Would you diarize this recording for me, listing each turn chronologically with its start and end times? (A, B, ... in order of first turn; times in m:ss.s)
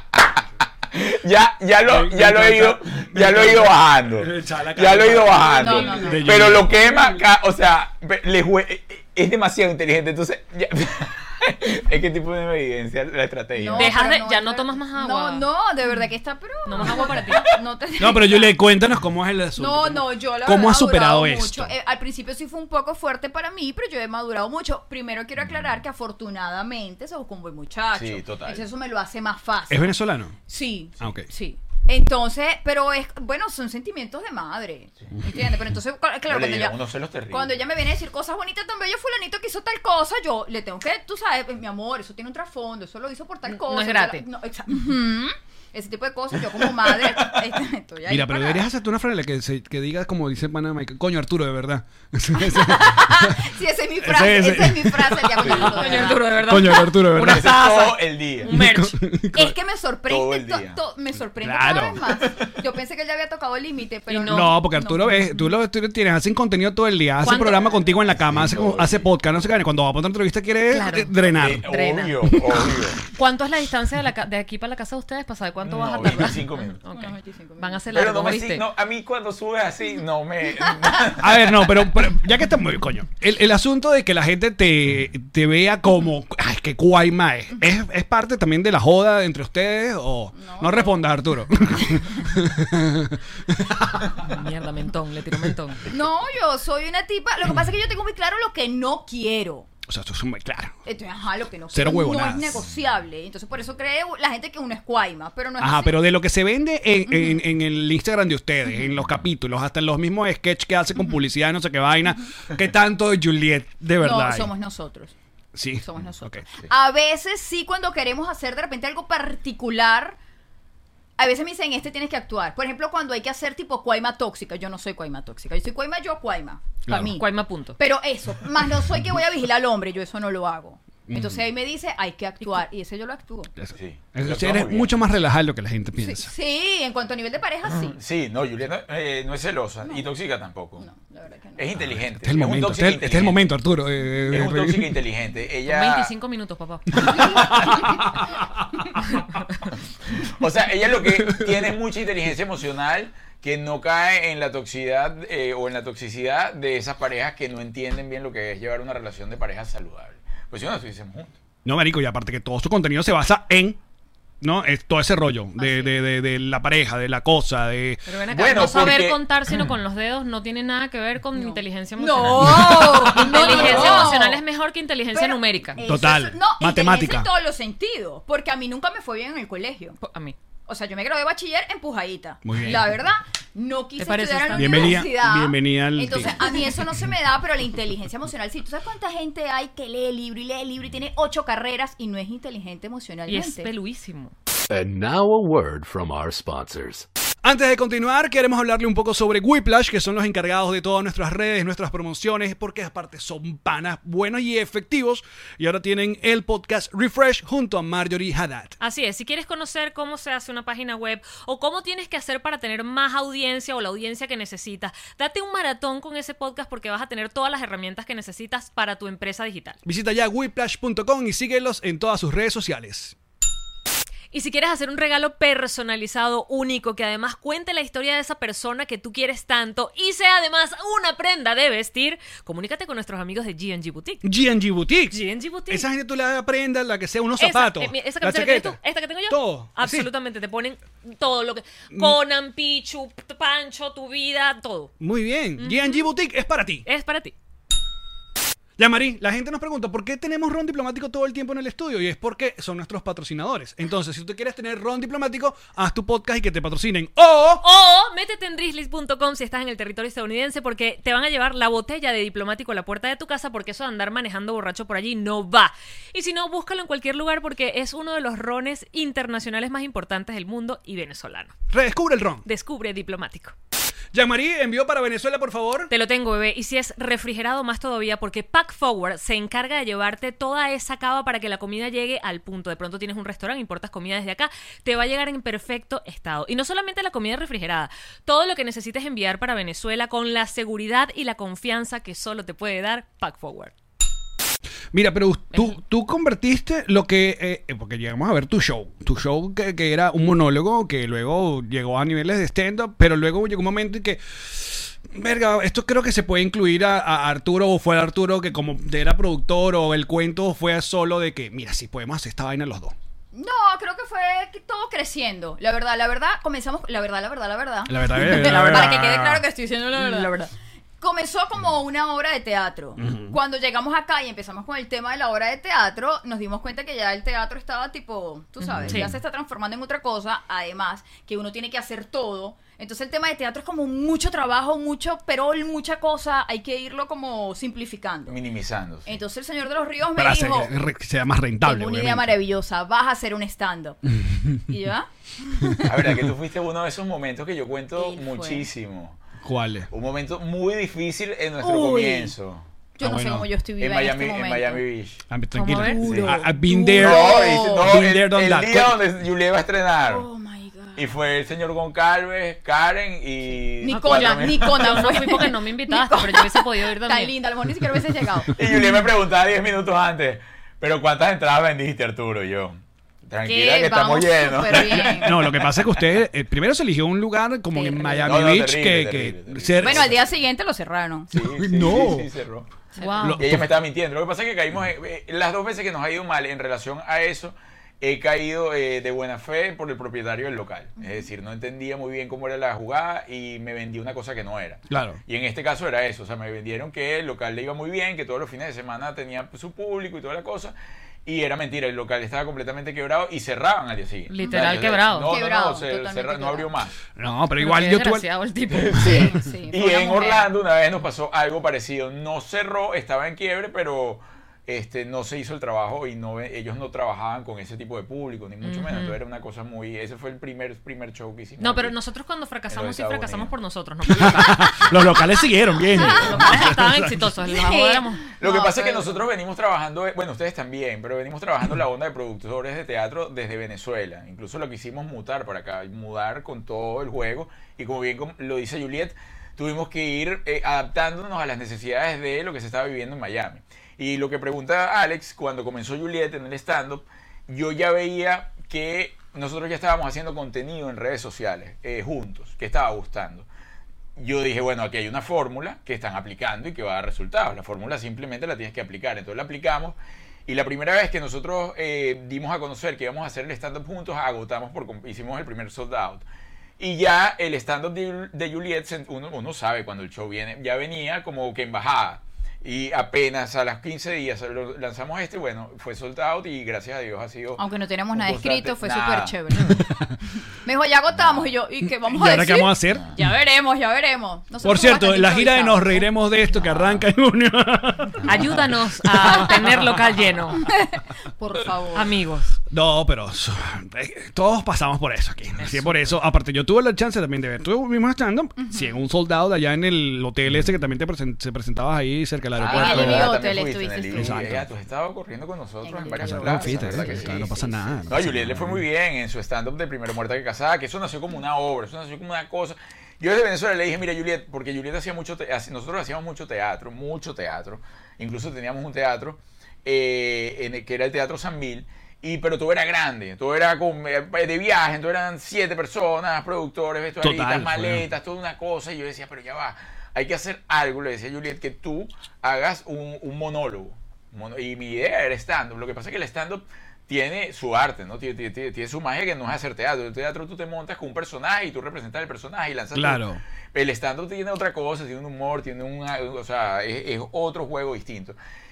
0:00.9-0:14.0 A
0:01.9-0:07.0 B
0:05.4-0:06.6 C
0:13.6-0:18.6 C
0:13.8-0:15.5 D
0:16.7-0:17.5 D
0:18.0-0:21.7 B
0:19.6-0:36.8 C
0:25.4-0:25.7 A
0:27.9-0:28.6 A
0:29.7-0:30.4 B
0:31.0-0:31.3 B
0:36.3-0:37.6 A
0:37.3-0:48.7 C
0:43.5-0:44.2 D
0:46.5-0:47.4 A
0:48.1-0:53.4 B
0:52.5-0:56.4 C
0:54.0-0:57.5 B
0:55.5-0:59.0 D
0:57.2-0:58.6 A
0:58.4-0:59.6 B
0:59.3-1:05.3 C
1:00.1-1:00.8 A
1:01.4-1:02.0 B
1:04.1-1:04.6 D
1:04.3-1:11.7 B
1:07.2-1:07.8 D
1:08.1-1:09.1 A
1:10.7-1:12.3 D
1:11.4-1:13.0 A
1:12.3-1:12.6 B
1:13.2-1:18.6 D
1:15.6-1:16.8 A
1:16.9-1:17.8 C
1:17.9-1:21.9 A
1:21.2-1:34.2 B
1:30.3-1:31.1 C
1:34.2-1:35.8 D
1:35.9-1:39.7 C
1:39.9-1:40.8 B
1:40.9-1:46.1 C
1:41.7-1:42.6 B
1:45.6-1:54.5 B
1:47.1-1:47.4 C
1:54.0-1:55.1 C
1:55.6-1:56.4 B
1:55.8-2:00.2 C
2:01.2-2:07.2 C
2:06.9-2:07.2 B
2:07.2-2:07.8 D
2:07.8-2:13.5 C
2:11.1-2:11.4 B
2:13.6-2:16.3 B
2:13.8-2:15.0 A
2:16.0-2:18.0 C
2:17.8-2:20.9 A
2:20.8-2:21.8 C
2:21.6-2:23.5 A
2:22.2-2:25.0 B
2:24.3-2:26.1 A
2:25.7-2:27.0 D
2:27.1-2:28.1 B
2:29.2-2:29.7 D
2:30.2-2:41.3 A
2:41.6-2:43.8 B
2:44.4-2:48.0 B
2:45.6-2:46.0 C
2:48.1-2:55.8 D
2:48.3-2:49.2 A
2:51.4-2:54.4 C
2:52.3-2:53.9 B
2:53.5-2:54.1 A
2:55.1-3:00.0 C
2:55.8-2:57.3 B
3:00.0-3:00.4 D
3:00.7-3:13.7 C
3:02.4-3:02.9 B
3:04.0-3:05.0 D
3:04.6-3:06.4 B
3:13.3-3:14.3 D
3:14.7-3:17.1 E
3:17.4-3:28.8 B
3:28.8-3:39.8 D
3:39.8-3:43.2 B
3:44.3-3:54.2 D
3:54.2-4:00.1 B
3:55.1-3:55.9 D
3:57.4-4:04.9 D
4:05.0-4:06.9 B
4:05.6-4:06.1 D
4:06.9-4:07.4 D
4:08.8-4:17.6 B
4:17.6-4:31.6 D
4:31.7-4:32.4 B
4:32.4-4:33.6 D
4:34.1-4:35.9 B
4:35.9-4:53.7 D
4:54.9-5:12.9 B
5:13.3-5:38.4 C
5:17.9-5:19.4 B
5:18.6-5:18.8 D
5:19.9-5:20.5 D
5:23.0-5:23.4 B
5:28.6-5:29.2 D
5:38.3-5:39.2 A
5:39.1-5:40.7 C
5:40.2-5:42.4 B
5:41.6-5:44.0 C
5:44.2-5:44.6 B
5:44.7-5:45.9 C
5:45.8-5:49.2 A
5:48.0-5:48.7 C
5:49.4-5:49.9 B
5:49.9-5:52.7 A
5:51.6-5:52.3 C
5:53.0-5:54.8 C
5:53.0-5:53.5 B
5:53.8-5:55.2 A
5:55.3-5:59.0 B
5:55.5-5:56.1 D
5:55.7-5:58.0 C
5:56.0-5:56.4 A
5:57.0-6:00.3 A
6:00.1-6:01.0 C
6:01.0-6:05.1 A
6:03.8-6:09.0 C
6:03.9-6:07.4 D
6:08.6-6:16.2 A
6:13.4-6:15.6 C
6:14.7-6:20.1 B
6:17.8-6:18.3 C
6:18.2-6:20.2 A
6:19.8-6:21.4 C
6:21.3-6:22.7 A
6:21.5-6:22.3 B
6:23.0-6:23.4 D
6:23.0-6:23.3 C
6:23.2-6:23.7 B
6:23.4-6:40.7 A
6:34.9-6:35.2 B
6:41.2-6:47.0 A
6:44.3-6:45.3 D
6:44.4-6:46.7 C
6:47.2-6:48.3 B
6:47.6-6:49.3 D
6:48.8-7:02.0 A
6:49.0-6:50.5 C
6:58.6-6:59.2 D
7:01.6-7:04.9 D
7:02.7-7:03.5 A
7:04.1-7:07.2 B
7:05.9-7:08.2 D
7:05.9-7:06.7 C
7:07.5-7:09.2 C
7:08.4-7:33.5 A
7:34.2-7:46.2 A
7:46.8-7:59.8 A
7:57.6-7:59.9 C
7:59.8-8:00.1 B
8:00.6-8:06.1 C
8:01.2-8:01.5 A
8:02.1-8:03.2 B
8:04.6-8:09.8 B
8:06.7-8:07.0 A
8:08.2-8:10.6 D
8:10.7-8:12.1 C
8:11.9-8:12.6 D
8:12.7-8:23.4 B
8:18.6-8:19.0 C
8:22.6-9:08.4 A
8:22.6-8:24.4 C
8:24.1-8:24.7 B
8:25.8-8:27.5 C
8:26.2-8:28.8 B
8:47.2-8:48.0 B
9:03.0-9:03.4 B